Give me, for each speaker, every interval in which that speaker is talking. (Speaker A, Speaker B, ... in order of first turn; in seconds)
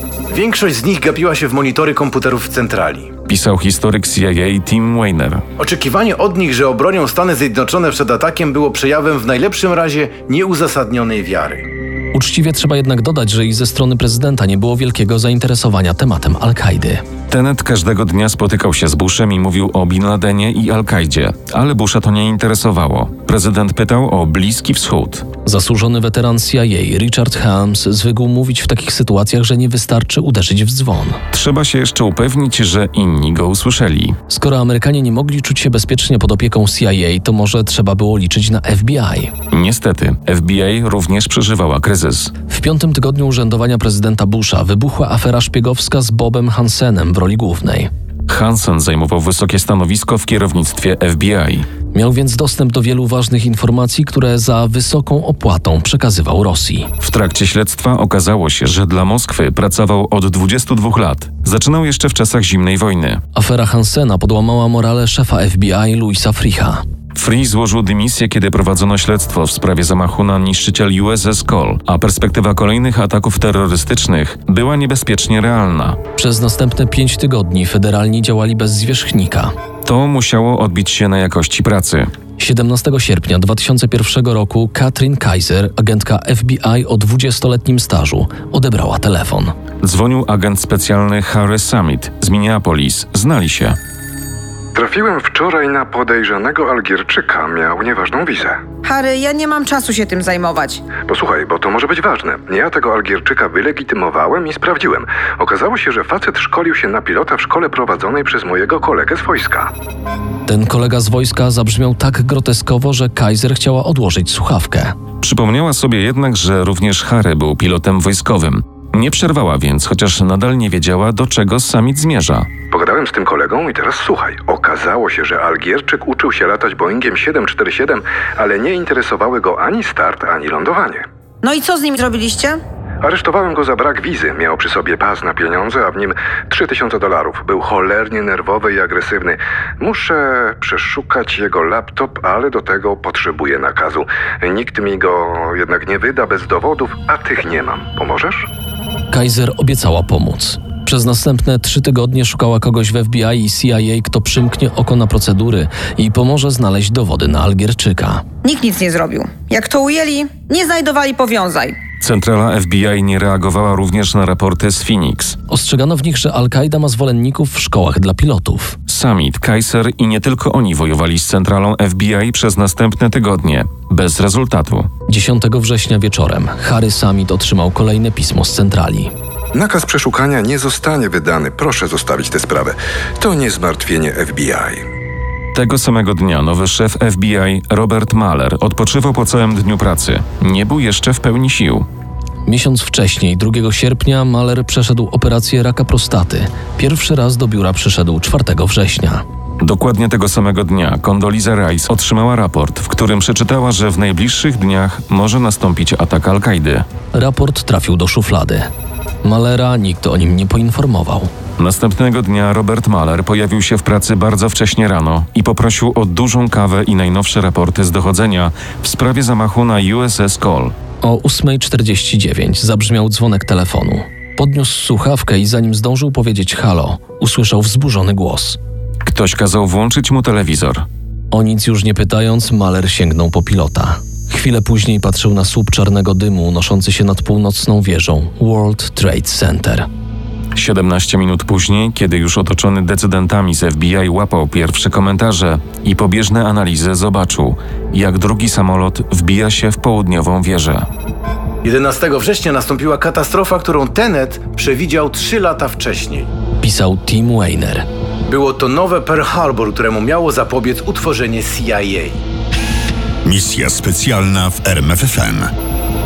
Speaker A: 0.3-3.1, 5.6-11.7, 251.6-256.3, 258.3-262.2
Speaker B: 3.3-5.4, 17.3-25.3, 31.3-34.1, 39.5-42.3, 48.3-51.7, 57.0-63.2, 67.1-76.0, 79.8-82.1, 89.8-93.8, 115.2-122.5, 162.0-165.4, 168.9-174.9, 185.5-191.8, 199.6-206.8, 211.6-220.7, 229.0-230.9, 240.5-250.9
Speaker C: 12.1-17.0, 25.4-31.2, 34.3-39.3, 42.5-47.9, 51.9-56.9, 63.3-66.8, 76.2-79.5, 82.4-89.5, 110.5-114.9, 149.1-158.2, 165.5-168.8, 175.1-179.1, 192.4-199.2, 207.1-208.7, 209.2-211.3, 221.0-228.6, 231.3-239.8, 256.6-257.9
Speaker D: 94.7-98.6, 101.0-109.7, 122.7-131.0, 133.0-148.5, 179.5-184.8
Speaker E: 98.8-100.8, 131.4-132.6, 158.4-161.8
Speaker F: 263.2-265.5